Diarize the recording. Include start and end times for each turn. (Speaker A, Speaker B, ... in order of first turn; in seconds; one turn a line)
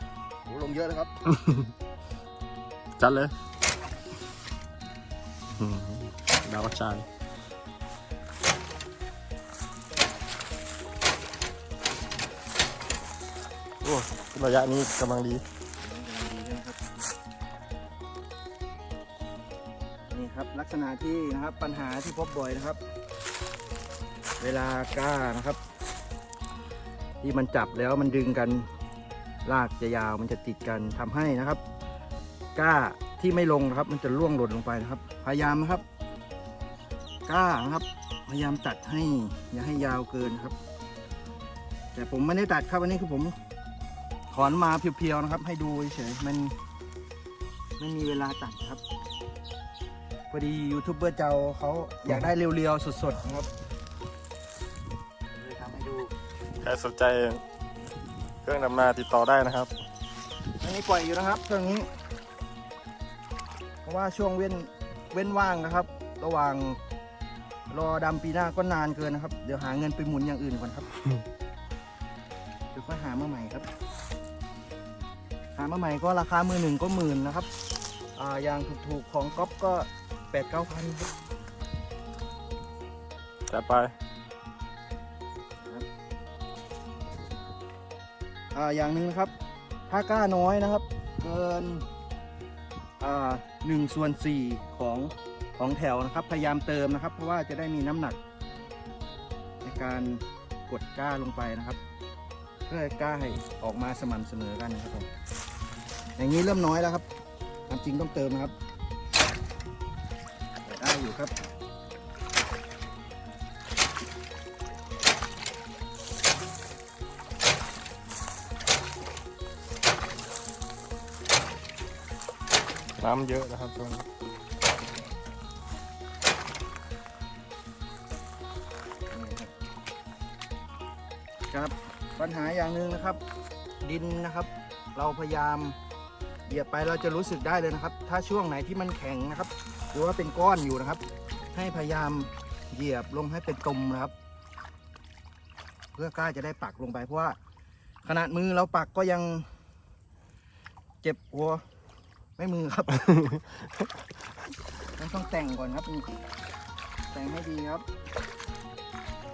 Speaker A: 0.4-1.1
Speaker B: 1.3-1.7
Speaker B: 3.0-3.3
Speaker B: 5.5-7.1
Speaker B: 13.8-15.4
Speaker A: 15.8-16.8
Speaker A: 20.1-22.8
Speaker A: 24.4-25.6
Speaker A: 27.2-28.7
Speaker A: 29.4-31.6
Speaker A: 32.6-35.8
Speaker A: 37.3-40.5
Speaker A: 41.9-43.4
Speaker A: 44.3-46.6
Speaker A: 47.8-48.8
Speaker A: 50.3-53.5
Speaker A: 55.4-56.1
Speaker B: 56.6-57.4
Speaker B: 58.4-59.7
Speaker A: 60.6-61.9
Speaker A: 63.9-66.8
Speaker A: 67.7-70.9
Speaker A: 72.7-73.7
Speaker A: 75.6-77.5
Speaker A: 78.2-81.1
Speaker B: 83.5-83.9
Speaker A: 88.5-89.3
Speaker A: 89.9-91.9
Speaker A: 93.0-98.2
Speaker A: 99.6-101.8
Speaker A: 102.7-105.1
Speaker A: 106.2-107.1
Speaker A: 107.7-108.5
Speaker A: 110.6-111.5
Speaker B: 123.0-124.1
Speaker A: 129.1-129.5
Speaker A: 131.5-133.2
Speaker A: 133.8-135.8
Speaker A: 136.5-141.0
Speaker A: 141.5-144.1
Speaker A: 145.9-147.4
Speaker A: 148.0-149.5
Speaker A: 151.0-151.7
Speaker A: 152.4-153.3
Speaker A: 155.0-156.1
Speaker A: 157.1-157.8